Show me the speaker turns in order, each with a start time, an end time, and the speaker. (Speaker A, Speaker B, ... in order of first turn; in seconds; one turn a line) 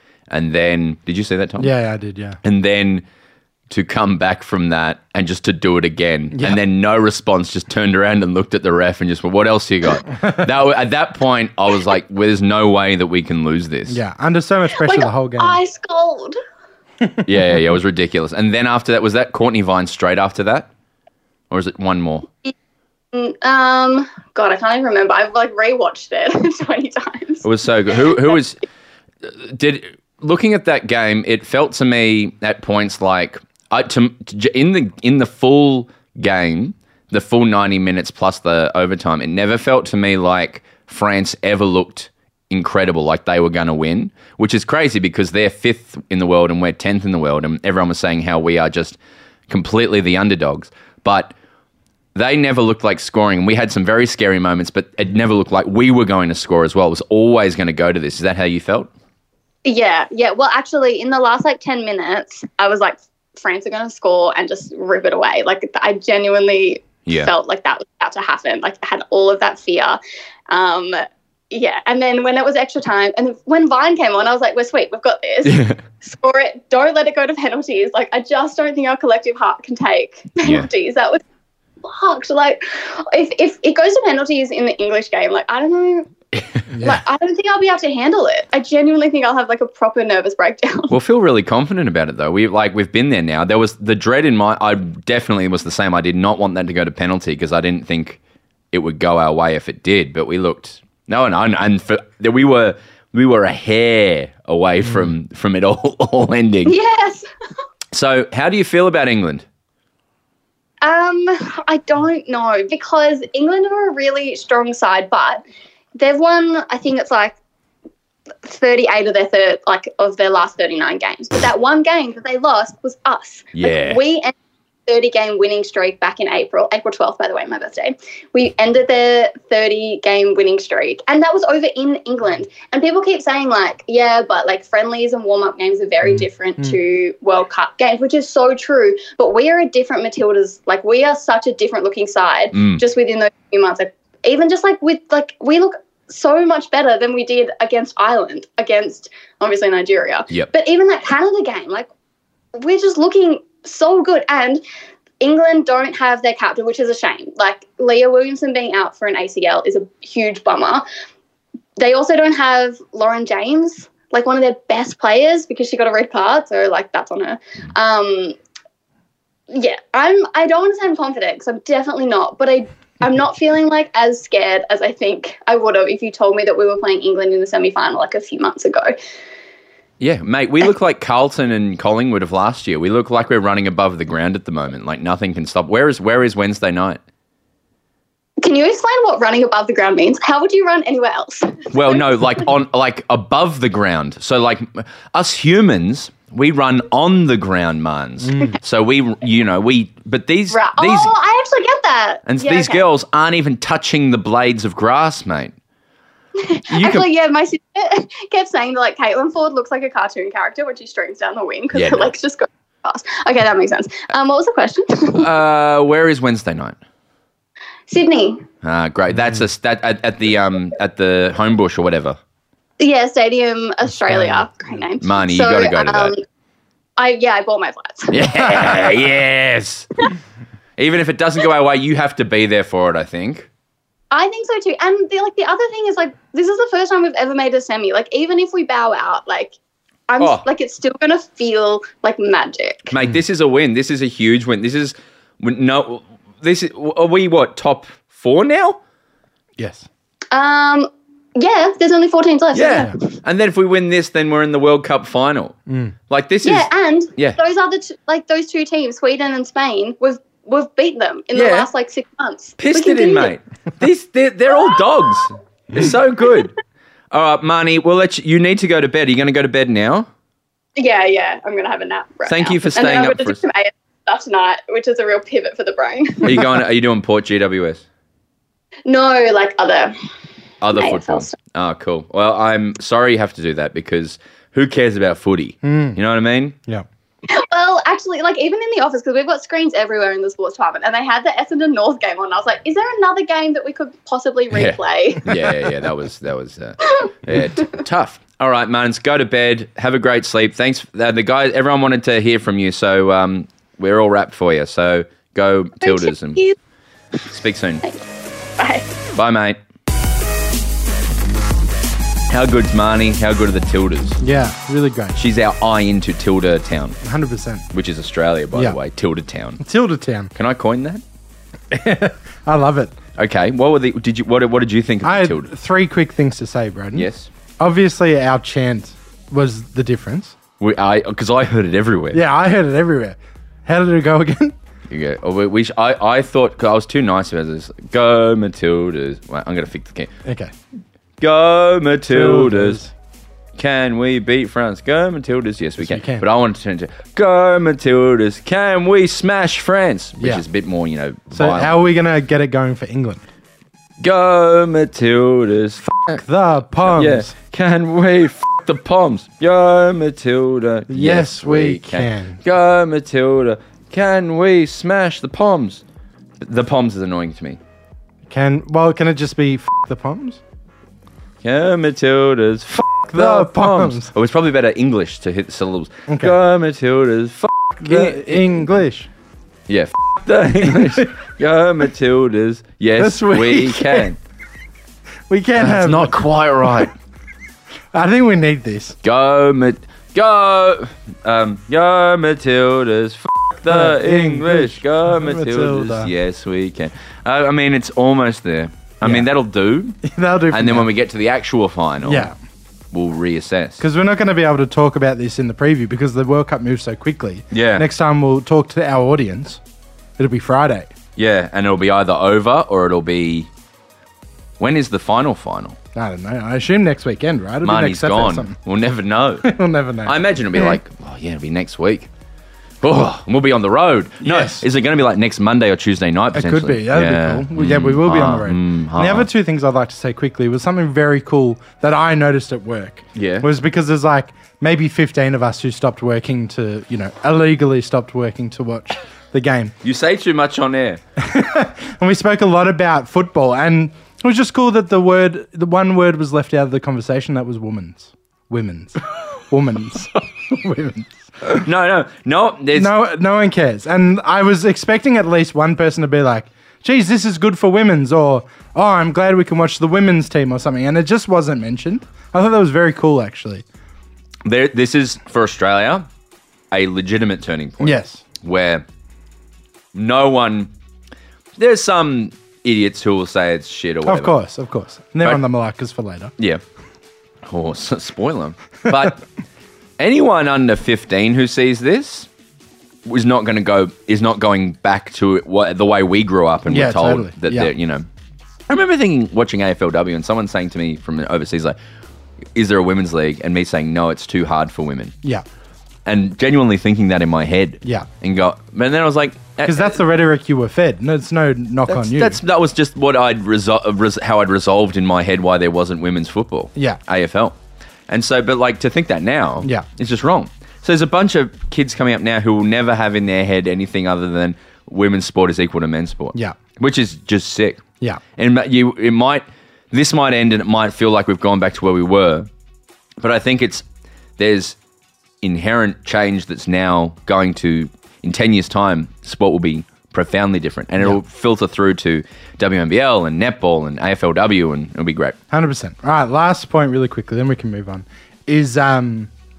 Speaker A: 0.3-1.7
Speaker B: 1.6-2.4
Speaker A: 2.4-3.0
Speaker A: 3.7-14.0
Speaker B: 6.3-6.6
Speaker B: 13.9-15.6
Speaker C: 14.7-16.4
Speaker A: 17.2-20.7
Speaker A: 21.5-22.3
Speaker C: 23.1-27.4
Speaker A: 27.4-28.6
Speaker A: 29.2-49.0
Speaker A: 49.5-51.3
Speaker A: 52.1-58.9
Speaker C: 59.6-81.2
Speaker A: 67.1-67.3
Speaker A: 75.5-75.8
Speaker A: 80.4-80.7
Speaker C: 81.8-86.1
Speaker B: 86.7-87.0
Speaker C: 86.8-90.9
Speaker A: 90.9-98.2
Speaker A: 98.7-106.7
Speaker C: 106.7-107.3
Speaker A: 107.9-109.5
Speaker C: 110.8-115.4
Speaker C: 116.0-117.4
Speaker C: 118.4-124.3
Speaker A: 123.5-124.0
Speaker C: 124.9-151.9
Speaker A: 142.5-142.8
Speaker C: 152.6-154.6
Speaker C: 155.2-160.8
Speaker C: 161.8-168.3
Speaker C: 169.5-179.0
Speaker A: 180.0-187.0
Speaker C: 188.4-192.3
Speaker A: 191.7-201.1
Speaker B: 198.2-198.6
Speaker C: 200.5-202.8
Speaker A: 202.3-205.5
Speaker C: 206.4-215.3
Speaker A: 206.7-207.1
Speaker A: 211.7-212.1
Speaker A: 215.2-216.8
Speaker C: 217.9-218.4
Speaker A: 218.6-222.2
Speaker C: 222.8-226.2
Speaker A: 225.0-226.1
Speaker C: 227.0-228.8
Speaker A: 228.1-229.9
Speaker A: 230.8-233.5
Speaker C: 234.1-239.5
Speaker C: 240.1-242.9
Speaker A: 242.9-248.8
Speaker B: 249.6-249.9
Speaker C: 250.3-252.9
Speaker A: 252.5-255.6
Speaker B: 255.7-255.9
Speaker A: 256.1-257.4
Speaker C: 256.4-263.3
Speaker A: 261.3-261.7
Speaker A: 262.6-266.5
Speaker A: 267.1-270.1
Speaker C: 270.8-276.6
Speaker A: 272.3-273.4
Speaker A: 276.2-277.8
Speaker C: 278.9-279.9
Speaker A: 280.6-286.6
Speaker C: 280.7-281.3
Speaker B: 285.6-286.0
Speaker C: 287.3-295.4
Speaker A: 294.5-306.4
Speaker C: 305.8-306.6
Speaker A: 307.3-307.9
Speaker C: 308.6-308.9
Speaker A: 309.1-309.6
Speaker A: 312.3-314.2
Speaker B: 314.2-315.2
Speaker A: 315.2-317.0
Speaker B: 317.0-317.7
Speaker A: 317.7-319.6
Speaker B: 318.5-318.8
Speaker B: 319.6-320.3
Speaker A: 320.4-321.0
Speaker B: 321.7-322.9
Speaker A: 323.2-325.5
Speaker B: 325.0-327.1
Speaker A: 326.9-327.3
Speaker B: 327.6-330.4
Speaker A: 330.6-332.2
Speaker B: 332.1-334.6
Speaker A: 334.9-340.1
Speaker B: 340.2-340.5
Speaker A: 341.2-342.8
Speaker B: 342.1-342.9
Speaker A: 343.6-351.8
Speaker B: 345.8-346.3
Speaker B: 350.2-350.4
Speaker B: 351.3-353.2
Speaker A: 354.0-356.2
Speaker B: 356.1-357.3
Speaker A: 356.8-365.8
Speaker B: 360.9-362.4
Speaker A: 366.4-367.6
Speaker B: 368.3-370.4
Speaker A: 371.4-378.6
Speaker B: 373.1-374.1
Speaker B: 376.1-376.4
Speaker B: 377.8-379.1
Speaker A: 379.7-384.2
Speaker B: 380.6-381.0
Speaker B: 383.0-384.1
Speaker B: 385.3-386.9
Speaker A: 385.6-386.9
Speaker B: 387.9-389.0
Speaker A: 389.0-402.3
Speaker B: 393.7-396.1
Speaker B: 399.0-399.3
Speaker B: 400.0-400.9
Speaker B: 402.0-402.4
Speaker A: 402.9-403.8
Speaker B: 403.8-409.6
Speaker A: 407.5-407.9
Speaker B: 410.2-410.9
Speaker A: 411.2-413.5
Speaker A: 414.6-415.8
Speaker B: 415.9-418.6
Speaker A: 417.6-419.5
Speaker B: 419.4-420.8
Speaker A: 420.1-422.1
Speaker A: 422.8-429.3
Speaker B: 424.2-424.6
Speaker B: 426.3-439.8
Speaker A: 433.1-433.5
Speaker A: 439.8-441.0
Speaker B: 441.2-449.0
Speaker B: 449.5-451.6
Speaker A: 451.5-452.9
Speaker B: 452.7-463.6
Speaker A: 464.4-466.1
Speaker A: 466.7-468.8
Speaker B: 467.8-468.2
Speaker A: 469.9-470.7
Speaker A: 471.6-474.4
Speaker B: 474.1-476.3
Speaker A: 477.4-479.2
Speaker A: 480.0-482.3
Speaker A: 483.1-488.1
Speaker B: 486.7-487.7
Speaker A: 488.7-491.8
Speaker A: 492.6-495.1
Speaker A: 496.1-500.0
Speaker B: 497.8-498.1
Speaker B: 499.6-502.4
Speaker A: 501.9-507.6
Speaker A: 508.1-517.8
Speaker A: 518.4-522.5
Speaker A: 523.2-523.9
Speaker A: 524.4-524.8
Speaker A: 525.4-535.4
Speaker B: 535.5-539.3